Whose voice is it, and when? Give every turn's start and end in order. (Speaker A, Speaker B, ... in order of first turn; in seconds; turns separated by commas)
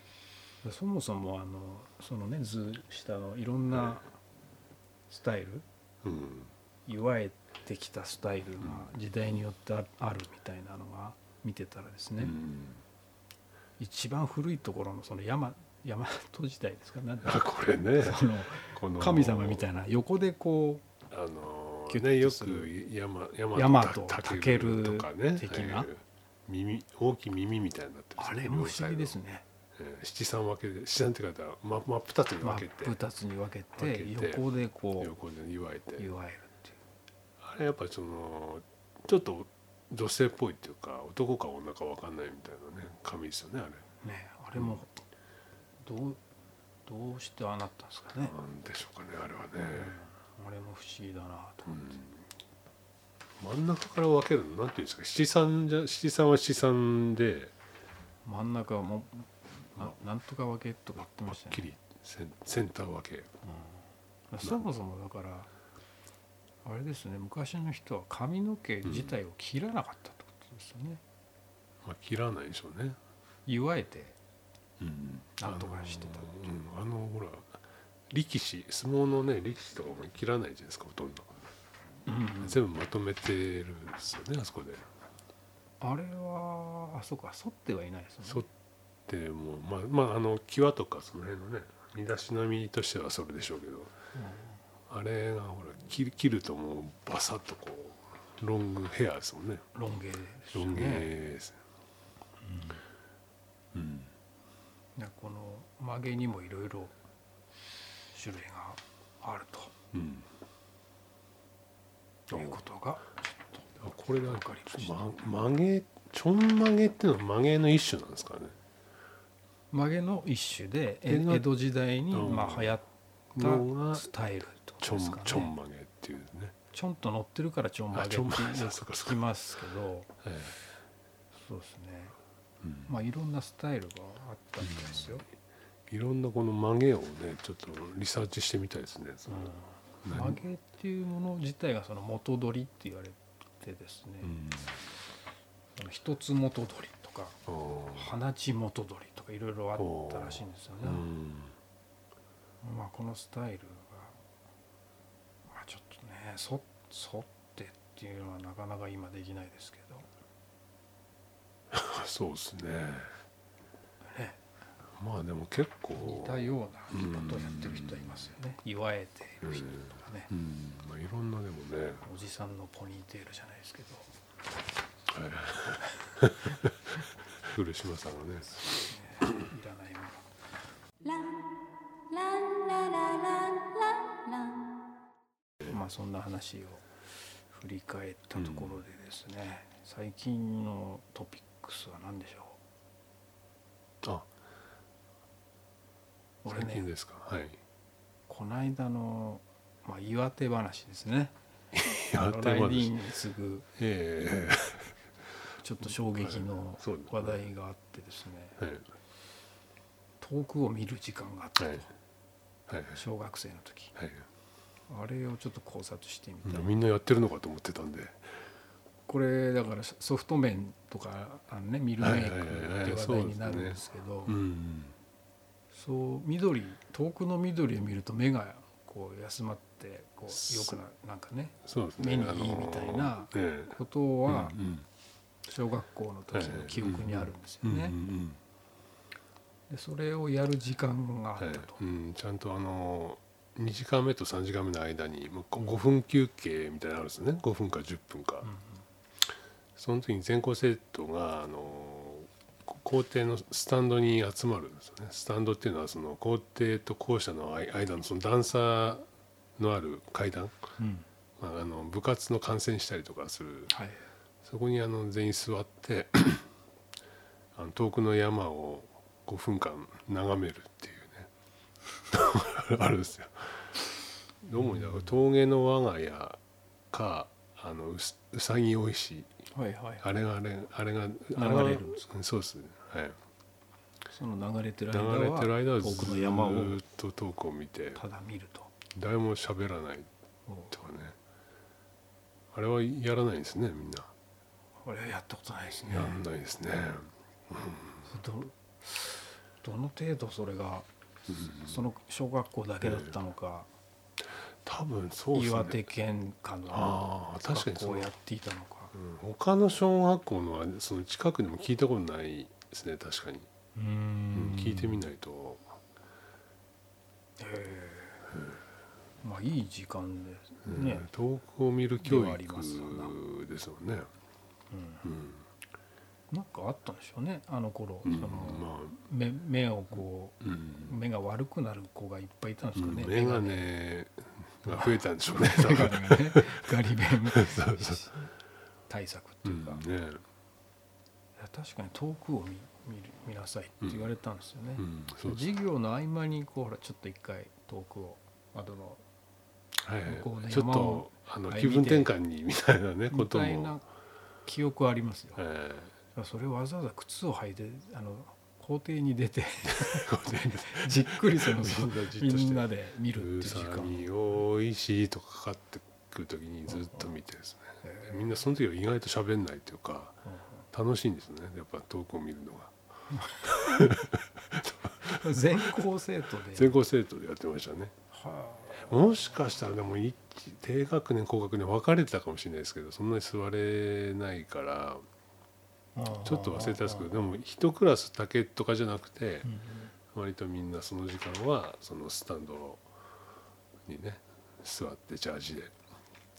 Speaker A: 0.6-4.1, Speaker A: 5.1-5.7, Speaker B: 6.0-6.5, Speaker A: 6.9-12.4, Speaker B: 12.2-12.8, Speaker A: 13.8-20.9, Speaker B: 17.2-19.7, Speaker B: 21.1-29.2, Speaker A: 21.9-22.7, Speaker A: 23.5-25.9, Speaker A: 28.2-29.4, Speaker B: 29.8-33.0, Speaker A: 32.4-35.1, Speaker B: 33.8-34.4, Speaker B: 35.0-36.1, Speaker A: 36.0-36.8, Speaker B: 37.4-43.8, Speaker A: 44.0-45.0, Speaker A: 45.8-46.2, Speaker A: 46.9-48.4, Speaker B: 48.2-50.0, Speaker A: 49.6-52.0, Speaker B: 51.7-52.2, Speaker B: 53.4-57.5, Speaker A: 58.2-61.7, Speaker B: 61.1-63.3, Speaker A: 63.4-65.5, Speaker A: 66.6-71.0, Speaker B: 68.8-69.1, Speaker B: 71.8-73.0, Speaker A: 73.5-74.2, Speaker B: 74.8-81.3, Speaker A: 75.4-76.4, Speaker A: 82.1-82.6, Speaker B: 82.4-84.9, Speaker A: 85.8-88.5, Speaker B: 89.1-93.9, Speaker A: 94.1-94.6, Speaker B: 94.9-99.6, Speaker A: 99.7-101.1, Speaker B: 100.5-101.6, Speaker A: 102.4-102.8, Speaker B: 103.7-104.1, Speaker A: 105.0-106.9, Speaker A: 108.1-109.7, Speaker B: 109.9-110.3, Speaker A: 112.3-115.2, Speaker B: 112.3-112.6, Speaker B: 113.8-118.6, Speaker A: 119.7-125.6, Speaker B: 121.1-121.5, Speaker B: 122.1-122.8, Speaker B: 123.3-124.1, Speaker B: 124.8-126.5, Speaker A: 126.7-130.2, Speaker B: 127.9-129.2, Speaker B: 130.2-130.5, Speaker A: 131.3-132.1, Speaker B: 132.6-132.9, Speaker A: 132.9-135.2, Speaker B: 134.6-135.2, Speaker B: 135.9-140.4, Speaker A: 139.3-144.4, Speaker B: 144.2-144.8, Speaker A: 145.8-147.4, Speaker B: 147.5-148.1, Speaker A: 147.9-151.1, Speaker B: 149.8-151.5, Speaker A: 152.6-154.2, Speaker A: 155.5-160.1, Speaker B: 161.7-163.1, Speaker A: 164.1-164.4, Speaker B: 165.0-168.3, Speaker A: 165.9-170.3, Speaker B: 169.4-172.1, Speaker A: 172.0-174.1, Speaker B: 175.1-178.6, Speaker A: 178.6-180.3, Speaker C: 181.0-181.5, Speaker C: 182.1-184.8, Speaker A: 185.6-186.9, Speaker A: 187.5-192.6, Speaker B: 188.4-188.8, Speaker B: 194.0-194.3, Speaker A: 196.4-196.9, Speaker B: 196.5-197.6, Speaker A: 198.3-201.4, Speaker B: 201.7-203.0, Speaker A: 201.9-203.7, Speaker B: 203.8-205.0, Speaker A: 205.6-208.6, Speaker B: 206.2-207.4, Speaker B: 208.6-208.8, Speaker A: 210.2-211.9, Speaker B: 212.7-213.0, Speaker A: 212.9-213.9, Speaker B: 213.9-214.2, Speaker A: 214.9-216.7, Speaker B: 216.4-218.3, Speaker A: 219.1-224.4, Speaker B: 222.0-224.9, Speaker A: 225.7-234.6, Speaker B: 230.3-230.8, Speaker B: 231.6-234.9, Speaker A: 235.4-238.0, Speaker B: 236.3-238.4, Speaker A: 239.7-241.8, Speaker B: 241.4-248.5, Speaker A: 248.4-248.8, Speaker B: 249.8-259.1, Speaker B: 259.6-260.6, Speaker A: 260.8-261.1, Speaker B: 261.4-263.7, Speaker A: 263.7-264.1, Speaker B: 264.4-266.5, Speaker B: 267.6-271.3, Speaker B: 272.1-273.7, Speaker B: 274.4-276.4, Speaker A: 274.6-275.1, Speaker B: 276.9-279.4, Speaker A: 279.5-280.1, Speaker B: 280.0-283.2, Speaker A: 281.4-282.1, Speaker A: 284.1-286.8, Speaker B: 284.9-288.0, Speaker A: 287.9-288.7, Speaker B: 288.9-290.1, Speaker A: 290.4-290.8, Speaker B: 290.7-291.1, Speaker B: 292.5-294.1, Speaker A: 294.8-296.2, Speaker B: 295.9-298.0, Speaker A: 298.1-300.9, Speaker B: 301.3-301.8, Speaker A: 301.4-303.7, Speaker B: 302.8-303.1, Speaker B: 304.6-305.9, Speaker A: 305.3-308.9, Speaker B: 306.7-308.1, Speaker B: 308.9-313.5, Speaker A: 313.8-315.1, Speaker B: 314.3-315.8, Speaker A: 317.4-318.3, Speaker A: 319.2-321.1, Speaker B: 320.6-324.1, Speaker A: 322.0-323.1, Speaker A: 324.7-325.1, Speaker B: 325.0-325.4, Speaker A: 326.3-333.7, Speaker B: 328.0-329.0, Speaker B: 330.4-330.9, Speaker B: 332.8-336.7, Speaker A: 334.6-338.3, Speaker B: 337.3-338.0, Speaker A: 338.9-339.8, Speaker B: 339.4-340.2, Speaker A: 341.4-349.0, Speaker B: 344.8-345.4, Speaker B: 349.8-353.8, Speaker A: 350.1-352.1, Speaker A: 353.1-353.9, Speaker A: 354.4-355.4, Speaker B: 355.4-355.9, Speaker A: 356.1-364.1, Speaker B: 359.6-372.8, Speaker A: 367.8-368.4, Speaker A: 370.3-370.6, Speaker A: 373.1-373.9, Speaker B: 373.4-375.5, Speaker A: 375.1-376.8, Speaker B: 376.5-377.9, Speaker A: 378.1-379.3, Speaker B: 378.8-385.1, Speaker A: 385.9-387.1, Speaker B: 386.2-389.5, Speaker A: 389.4-389.9, Speaker B: 390.1-392.9, Speaker B: 393.9-395.8